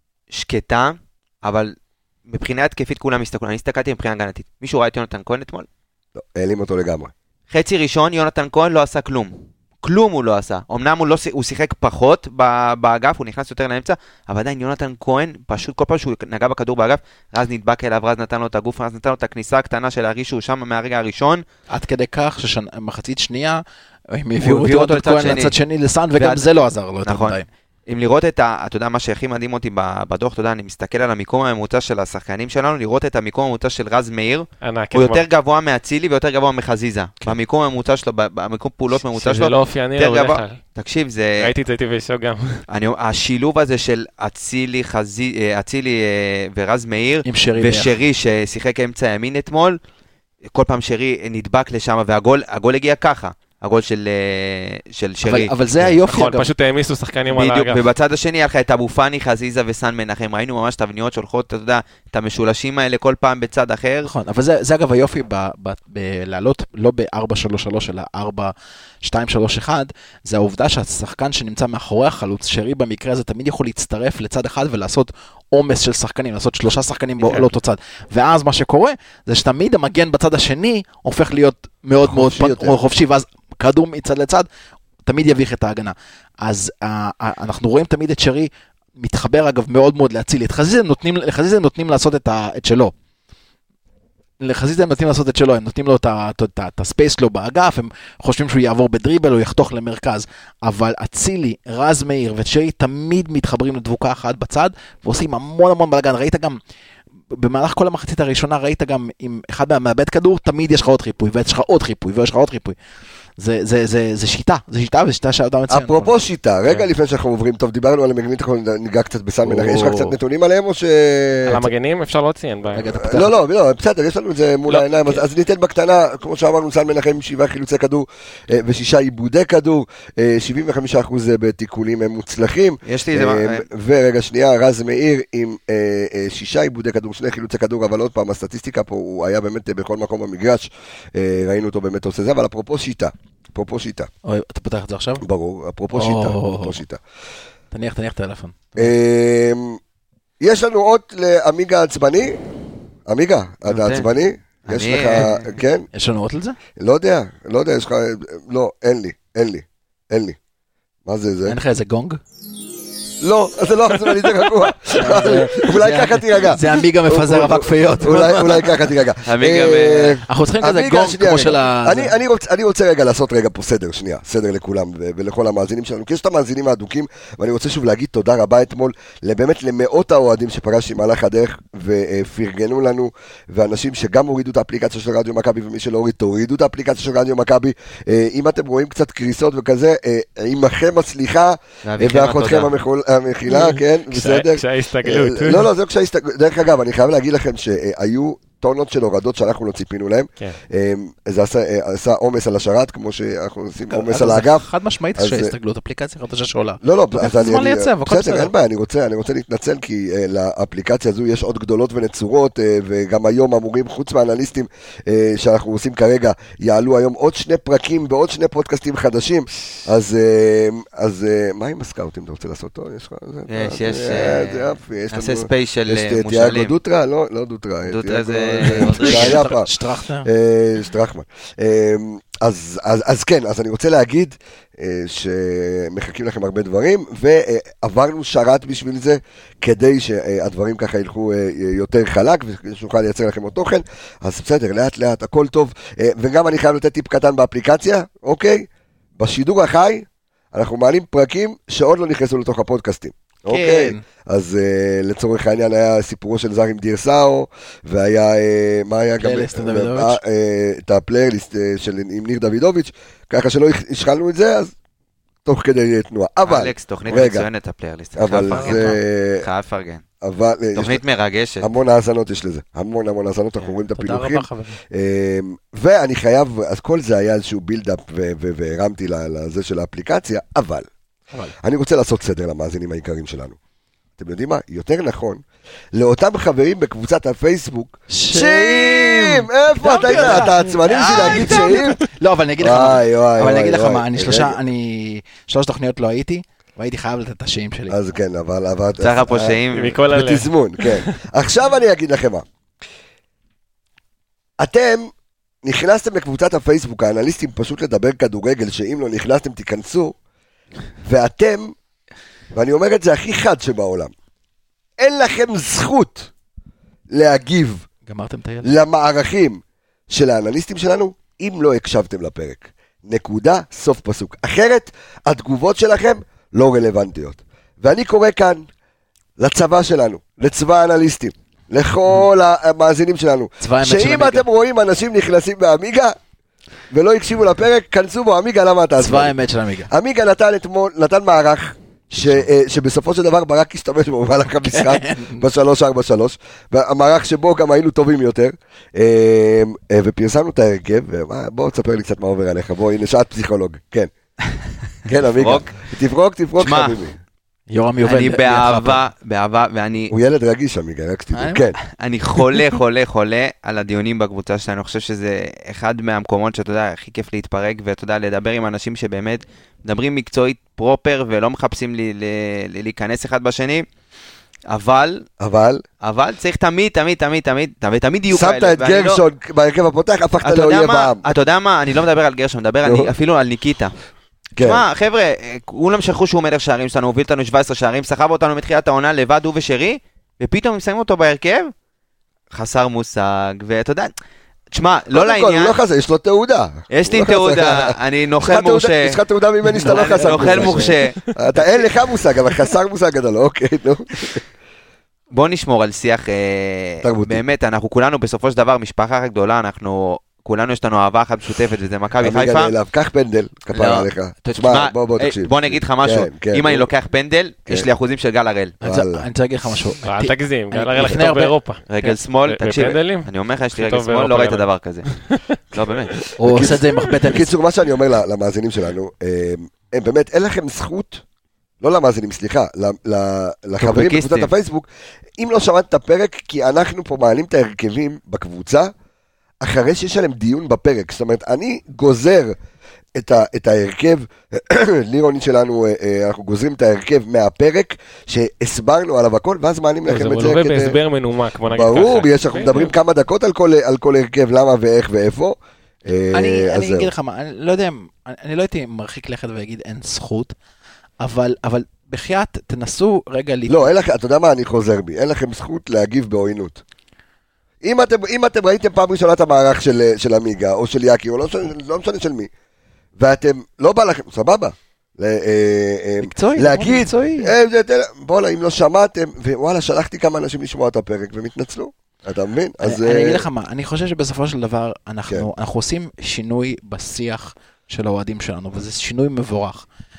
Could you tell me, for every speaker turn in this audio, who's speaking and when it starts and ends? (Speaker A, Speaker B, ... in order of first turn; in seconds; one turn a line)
Speaker A: 0.3-1.7
Speaker A: 2.3-5.7
Speaker B: 6.2-7.1
Speaker A: 7.5-21.4
Speaker C: 21.7-27.4
Speaker A: 24.4-25.6
Speaker A: 26.2-26.4
Speaker A: 27.0-41.5
Speaker D: 34.6-35.2
Speaker D: 39.1-40.6
Speaker D: 41.4-42.6
Speaker A: 42.7-49.8
Speaker C: 47.2-48.0
Speaker A: 50.5-55.5
Speaker C: 55.2-56.5
Speaker D: 55.8-57.8
Speaker A: 57.3-64.1
Speaker C: 64.0-84.5
Speaker B: 82.0-82.8
Speaker C: 85.0-92.9
Speaker C: 94.4-106.6
Speaker C: 107.3-112.8
Speaker C: 113.4-116.1
Speaker B: 115.7-121.7
Speaker C: 119.4-120.2
Speaker D: 121.5-122.9
Speaker C: 122.7-123.3
Speaker B: 123.0-144.1
Speaker A: 132.8-133.7
Speaker C: 144.2-145.2
Speaker B: 145.2-147.0
Speaker C: 145.9-146.8
Speaker C: 147.7-148.9
Speaker B: 148.8-149.8
Speaker B: 150.4-152.4
Speaker B: 153.1-155.8
Speaker A: 153.7-154.1
Speaker A: 154.6-155.5
Speaker C: 155.9-156.6
Speaker B: 156.8-160.4
Speaker B: 161.1-161.6
Speaker C: 161.4-162.2
Speaker B: 163.2-204.7
Speaker C: 164.9-168.7
Speaker A: 169.2-170.2
Speaker C: 170.3-172.1
Speaker A: 191.8-192.7
Speaker D: 193.5-195.7
Speaker C: 203.9-208.5
Speaker B: 205.2-205.5
Speaker B: 206.8-229.7
Speaker A: 223.5-226.7
Speaker A: 227.8-229.5
Speaker C: 228.6-230.3
Speaker B: 230.2-264.7
Speaker C: 253.5-254.0
Speaker C: 259.2-260.2
Speaker B: 265.4-267.5
Speaker A: 266.4-270.0
Speaker B: 268.2-269.4
Speaker C: 268.5-268.9
Speaker B: 270.2-271.0
Speaker A: 270.8-271.7
Speaker B: 271.6-280.9
Speaker C: 274.0-274.8
Speaker B: 281.6-283.6
Speaker B: 284.2-292.0
Speaker C: 288.1-297.9
Speaker B: 292.6-294.6
Speaker B: 297.9-302.4
Speaker A: 299.0-300.0
Speaker D: 299.7-301.1
Speaker B: 304.6-305.1
Speaker B: 305.6-310.1
Speaker B: 311.0-311.7
Speaker B: 312.5-314.1
Speaker B: 315.0-316.3
Speaker B: 317.1-317.9
Speaker C: 318.1-318.7
Speaker B: 318.6-328.7
Speaker B: 329.4-336.1
Speaker C: 333.6-334.5
Speaker B: 336.9-339.3
Speaker C: 339.0-339.9
Speaker B: 339.9-354.1
Speaker C: 342.1-342.4
Speaker C: 344.7-345.4
Speaker B: 355.0-357.2
Speaker A: 355.4-355.8
Speaker A: 356.6-357.0
Speaker C: 357.7-359.0
Speaker A: 358.0-360.1
Speaker B: 360.1-361.8
Speaker C: 361.3-361.6
Speaker A: 361.9-373.9
Speaker A: 374.7-375.2
Speaker B: 375.4-375.8
Speaker A: 376.0-379.2
Speaker B: 378.3-381.2
Speaker A: 380.4-383.9
Speaker B: 382.8-383.1
Speaker B: 384.6-384.8
Speaker A: 384.6-391.7
Speaker A: 392.5-394.1
Speaker A: 394.7-395.8
Speaker B: 395.1-404.4
Speaker A: 396.9-399.2
Speaker A: 399.8-401.2
Speaker C: 400.0-400.9
Speaker A: 405.3-412.7
Speaker B: 407.0-407.4
Speaker B: 412.2-416.9
Speaker A: 413.7-418.7
Speaker B: 418.8-419.3
Speaker C: 418.8-421.5
Speaker D: 420.0-425.4
Speaker A: 421.9-425.1
Speaker A: 425.7-426.2
Speaker C: 426.4-427.5
Speaker B: 426.4-431.2
Speaker B: 431.8-438.9
Speaker A: 433.8-434.5
Speaker B: 439.6-442.6
Speaker B: 443.1-451.0
Speaker D: 450.1-452.9
Speaker B: 451.7-457.1
Speaker C: 456.3-460.5
Speaker C: 461.2-463.9
Speaker B: 463.7-466.8
Speaker B: 467.8-472.5
Speaker B: 473.2-483.4
Speaker C: 476.2-477.5
Speaker C: 482.8-489.9